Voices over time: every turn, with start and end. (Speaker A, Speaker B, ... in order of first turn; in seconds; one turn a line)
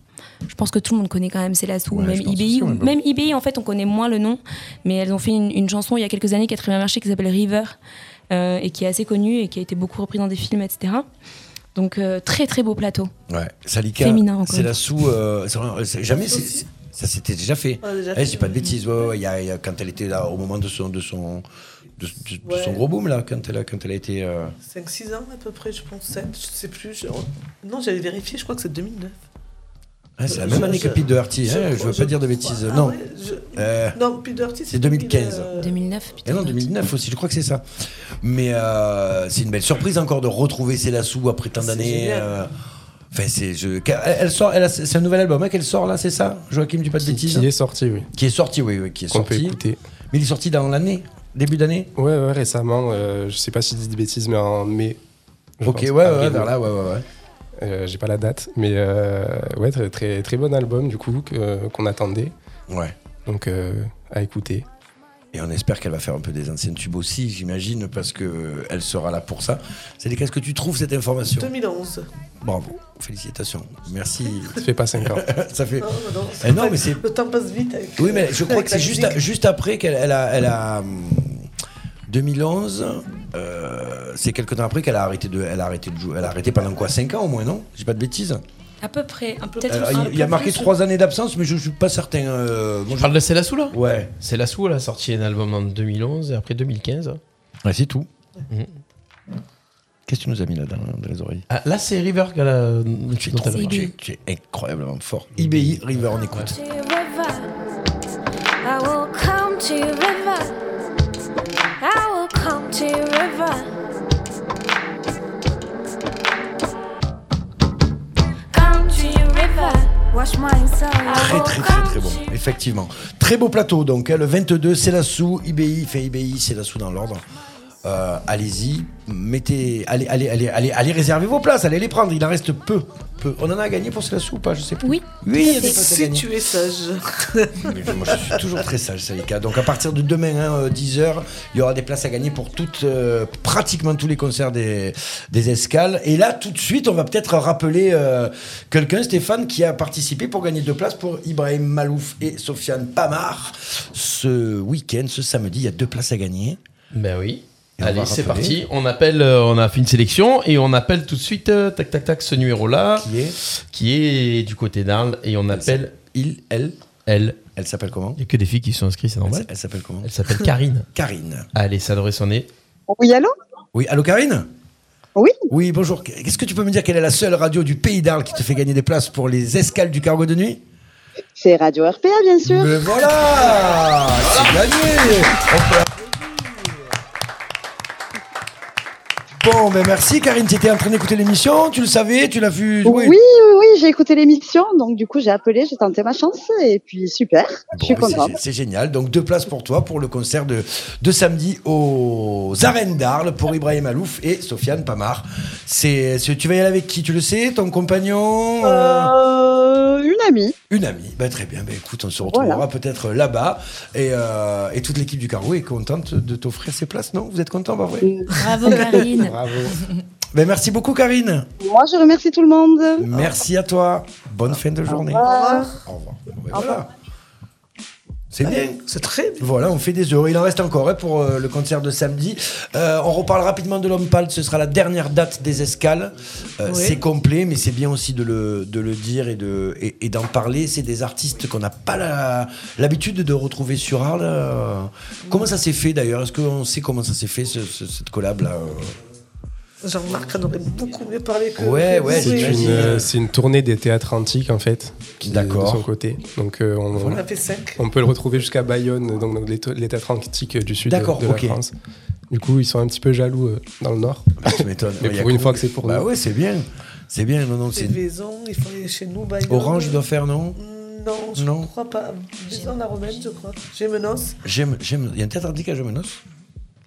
Speaker A: 0.5-7.8
Speaker B: 1.9-2.9
Speaker A: 8.3-11.1
Speaker A: 11.8-13.1
Speaker B: 13.3-21.5
Speaker A: 14.0-14.8
Speaker C: 16.1-16.7
Speaker C: 17.8-18.8
Speaker B: 22.0-24.6
Speaker C: 22.4-22.8
Speaker C: 24.7-29.2
Speaker B: 30.2-33.0
Speaker C: 30.3-35.8
Speaker B: 33.5-34.0
Speaker B: 34.7-35.5
Speaker A: 35.6-36.7
Speaker B: 36.2-37.6
Speaker B: 38.2-42.5
Speaker C: 41.6-42.3
Speaker B: 43.1-47.5
Speaker D: 47.0-48.1
Speaker B: 48.1-49.6
Speaker D: 49.1-49.8
Speaker B: 50.1-51.9
Speaker D: 52.0-55.0
Speaker D: 55.6-56.5
Speaker B: 55.6-57.1
Speaker D: 57.6-62.3
Speaker B: 62.7-63.0
Speaker D: 63.3-64.7
Speaker B: 65.3-71.5
Speaker C: 71.4-72.1
Speaker B: 72.4-77.0
Speaker D: 74.6-75.3
Speaker C: 75.8-79.2
Speaker B: 78.0-81.5
Speaker B: 82.1-88.4
Speaker A: 88.8-90.7
Speaker C: 89.5-90.7
Speaker B: 89.7-94.1
Speaker E: 93.0-97.2
Speaker B: 97.6-98.1
Speaker B: 100.1-101.5
Speaker E: 101.5-103.9
Speaker B: 103.2-106.5
Speaker A: 103.5-103.9
Speaker E: 105.4-105.8
Speaker F: 106.5-107.5
Speaker F: 108.6-110.5
Speaker F: 111.8-113.7
Speaker F: 118.5-122.3
Speaker B: 121.1-127.2
Speaker B: 127.8-136.3
Speaker A: 134.8-135.8
Speaker C: 135.4-138.4
Speaker B: 137.6-156.6
Speaker E: 156.9-163.1
Speaker B: 157.8-158.6
Speaker B: 163.0-163.4
Speaker E: 163.7-166.0
Speaker B: 165.5-166.8
Speaker E: 167.1-167.4
Speaker B: 167.6-168.2
Speaker E: 168.2-169.5
Speaker B: 169.3-170.1
Speaker E: 170.0-170.9
Speaker B: 170.9-171.5
Speaker E: 171.6-172.5
Speaker G: 172.9-173.3
Speaker B: 173.7-174.5
Speaker B: 175.5-180.6
Speaker G: 181.4-182.8
Speaker B: 182.4-186.0
Speaker B: 189.4-193.2
Speaker G: 192.8-198.4
Speaker B: 197.7-209.1
Speaker G: 208.6-210.5
Speaker B: 210.7-218.1
Speaker G: 212.2-212.6
Speaker G: 218.0-219.0
Speaker A: 218.4-219.9
Speaker D: 219.1-219.8
Speaker B: 220.3-221.5
Speaker G: 221.6-223.3
Speaker B: 223.0-225.3
Speaker G: 224.9-225.7
Speaker C: 225.2-225.7
Speaker B: 225.8-226.9
Speaker G: 226.5-226.8
Speaker B: 228.3-228.8
Speaker C: 228.5-229.6
Speaker B: 229.4-249.0
Speaker C: 236.7-237.0
Speaker C: 249.8-253.0
Speaker B: 251.6-253.1
Speaker D: 252.1-257.2
Speaker B: 255.2-255.9
Speaker B: 256.9-257.2
Speaker C: 257.0-257.8
Speaker D: 257.8-261.7
Speaker B: 260.9-261.6
Speaker D: 262.3-266.1
Speaker B: 264.4-268.0
Speaker C: 267.7-270.0
Speaker B: 269.5-270.6
Speaker C: 270.6-274.4
Speaker B: 271.4-271.7
Speaker A: 272.5-273.4
Speaker B: 274.4-276.2